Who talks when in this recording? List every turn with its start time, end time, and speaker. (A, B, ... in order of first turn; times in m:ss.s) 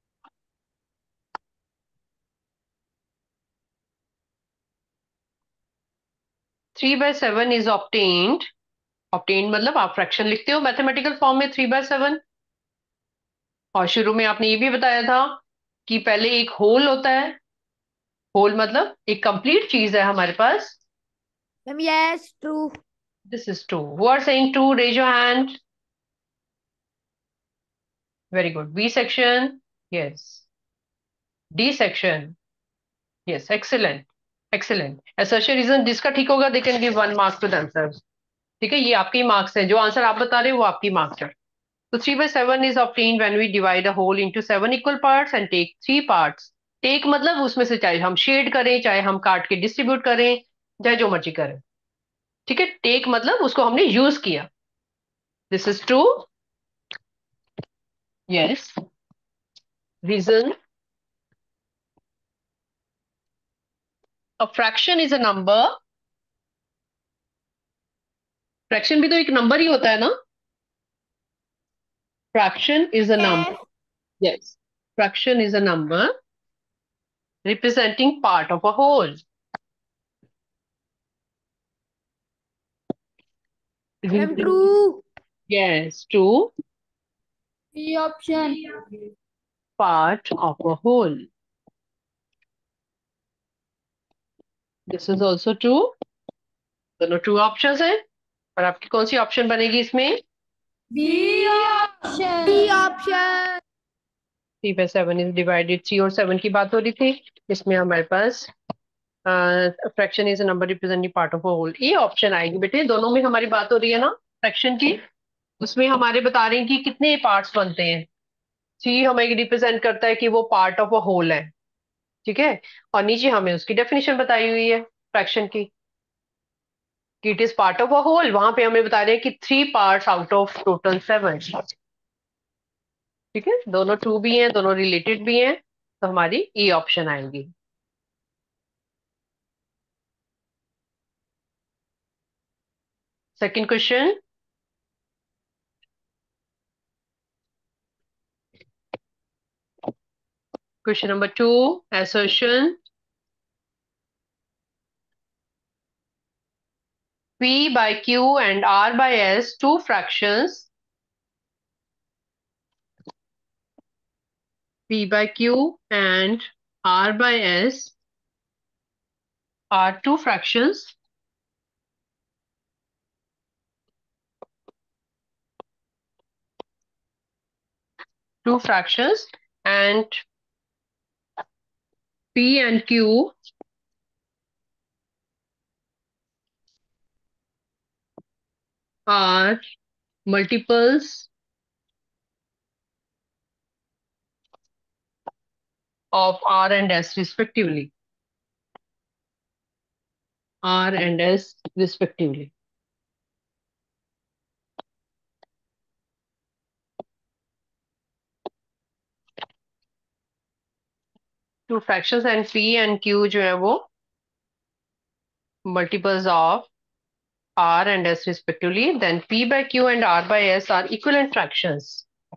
0:06.7-0:08.5 A
0:09.1-0:12.2 A
0:13.7-0:17.4 A
0:18.3-0:20.8 A
0:21.6-0:22.8 B
0:23.3-0:25.6 A
0:28.3-0:30.4 A
0:31.5-0:32.3 A
0:33.3-0:38.0 A
0:38.6-0:41.3 A
0:41.9-0:51.6 A
0:52.5-0:54.5 A
0:55.5-0:56.3 A
0:58.3-0:58.8 A
1:00.0-1:00.5 A
1:04.4-1:05.7 A
1:08.7-1:10.1 A
1:12.3-1:13.5 A
1:13.2-1:13.5 B
1:14.2-1:16.1 A
1:17.4-1:19.2 A
1:24.0-1:24.5 A
1:24.1-1:25.0 B
1:25.5-1:26.5 A
1:27.7-1:28.6 C
1:29.8-1:31.2 A
1:34.9-1:35.9 A
1:37.0-1:38.0 A
1:38.6-1:40.2 A
1:40.9-1:42.7 C
1:42.4-1:43.6 B
1:44.6-1:48.5 A
1:49.2-1:55.0 A
1:55.6-1:58.1 A
1:58.8-2:01.5 A
2:02.2-2:05.7 A
2:07.2-2:11.7 A
2:13.3-2:17.5 A
2:23.4-2:24.2 A
2:30.8-2:32.8 A
2:37.4-2:40.7 A
2:44.9-2:47.9 A
2:49.7-2:50.9 A
2:58.4-3:00.2 A
3:02.3-3:03.3 A
3:09.1-3:09.6 A
3:10.3-3:11.3 A
3:16.1-3:17.9 A
3:20.6-3:22.5 A
3:31.7-3:33.9 A
3:35.6-3:36.7 A
3:37.6-3:42.0 A